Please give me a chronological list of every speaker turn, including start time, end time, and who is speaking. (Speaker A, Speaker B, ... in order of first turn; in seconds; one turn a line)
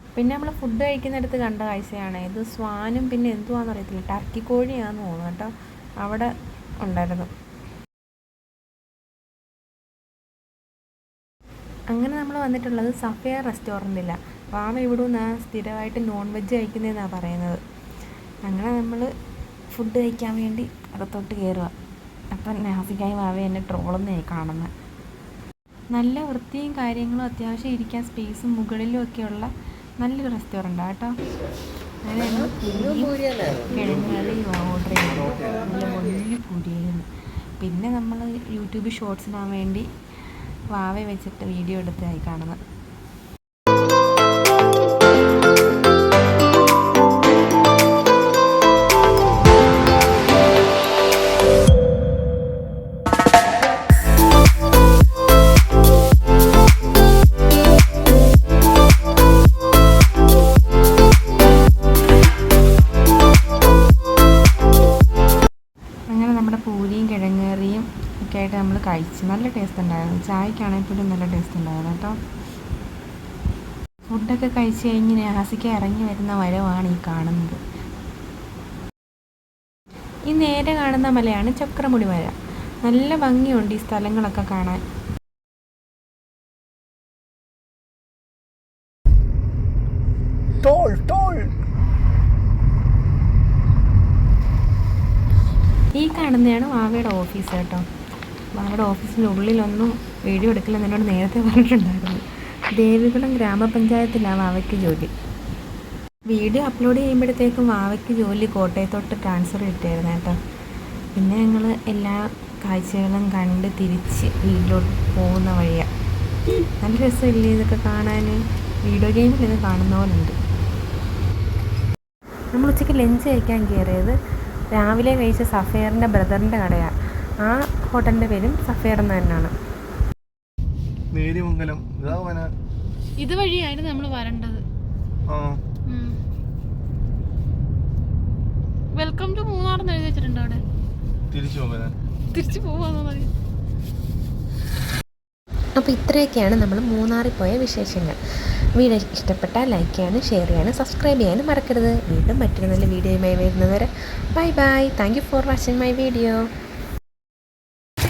Speaker A: 0.1-6.3
Speaker A: 6.8-7.3
Speaker A: 11.9-17.6
Speaker A: 18.4-19.1
Speaker A: 19.7-21.7
Speaker A: 22.3-24.7
Speaker A: 25.9-31.1
Speaker A: 32.0-37.1
Speaker A: 37.6-39.9
Speaker A: 40.7-42.6
Speaker A: 66.1-72.2
Speaker A: 74.1-77.6
Speaker A: 80.3-84.8
Speaker B: 90.6-91.5
Speaker A: 96.0-97.8
Speaker A: 98.6-102.2
Speaker A: 102.7-105.1
Speaker A: 106.3-110.4
Speaker A: 111.2-115.9
Speaker A: 116.8-120.3
Speaker A: 122.5-124.1
Speaker A: 124.8-126.9
Speaker A: 127.5-129.5
Speaker B: 131.1-132.5
Speaker C: 133.2-134.6
Speaker B: 135.3-135.6
Speaker C: 135.9-136.1
Speaker C: 138.9-140.6
Speaker B: 141.3-141.9
Speaker C: 142.3-143.3
Speaker A: 145.8-148.2
Speaker A: 148.8-156.4